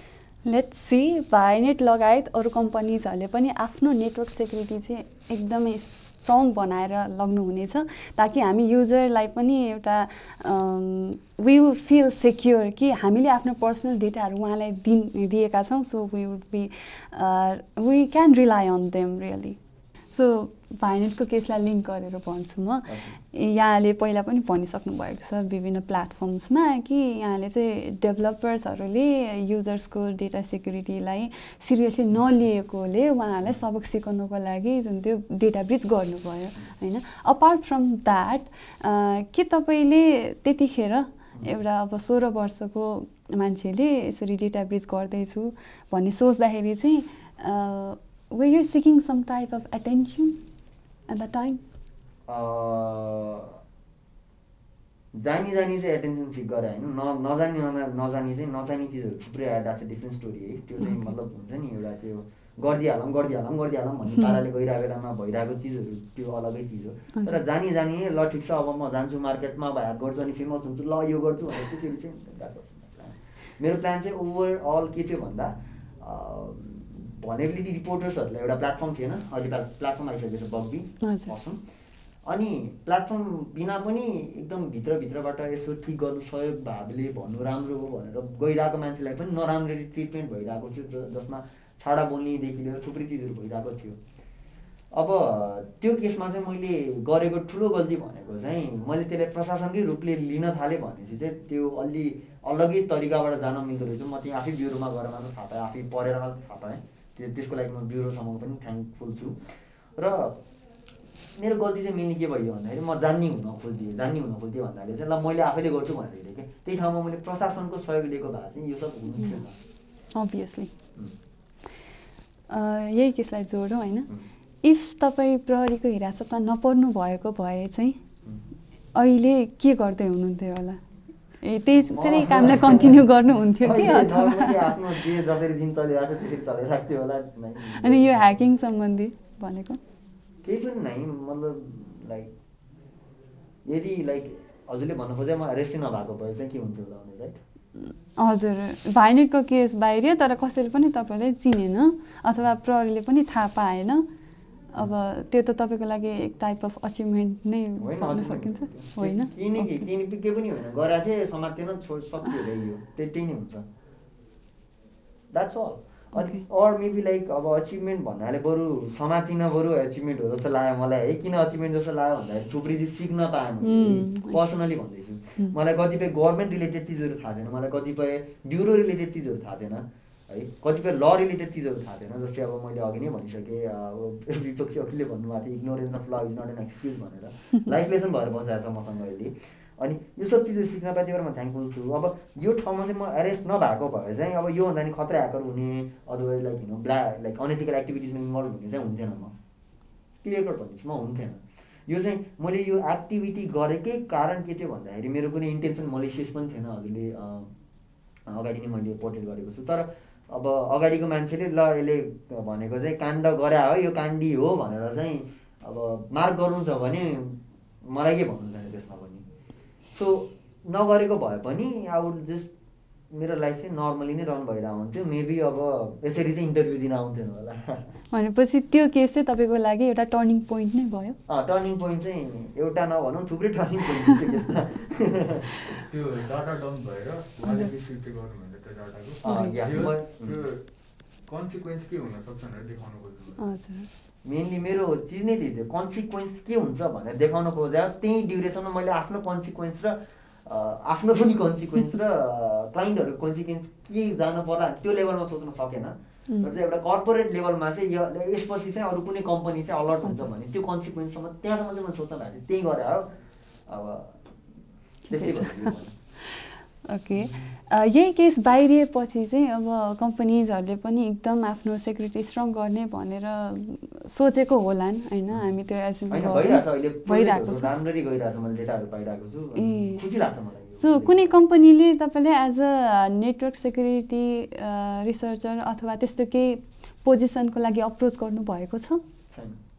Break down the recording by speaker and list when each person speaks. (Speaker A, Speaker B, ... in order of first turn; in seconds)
Speaker A: 0.5-19.6, 20.1-50.4, 51.1-51.6, 60.8-61.1, 67.1-67.4, 81.0-81.3, 120.1-120.7, 122.5-124.1, 124.6-128.0, 128.9-130.8, 131.4-134.8, 137.7-139.8, 147.8-154.1, 154.7-159.8, 166.2-166.5, 173.6-174.4, 228.1-231.2, 239.3-239.6, 243.4-243.9, 265.1-277.7, 279.6-280.0, 280.8-289.0
Speaker B: 22.9-23.2, 52.3-53.6, 55.1-81.6, 82.3-94.0, 94.9-110.4, 111.4-119.6, 131.8-133.0, 133.6-138.4, 140.4-142.3, 143.7-147.4, 157.8-163.7, 165.3-199.3, 200.2-207.5, 208.3-219.2, 219.9-222.5, 223.1-227.9, 231.3-235.5, 239.2-240.5, 244.2-263.1, 263.7-264.2, 265.1-266.0, 276.1-281.4, 289.3-289.6
Speaker C: 235.9-240.7, 241.2-243.4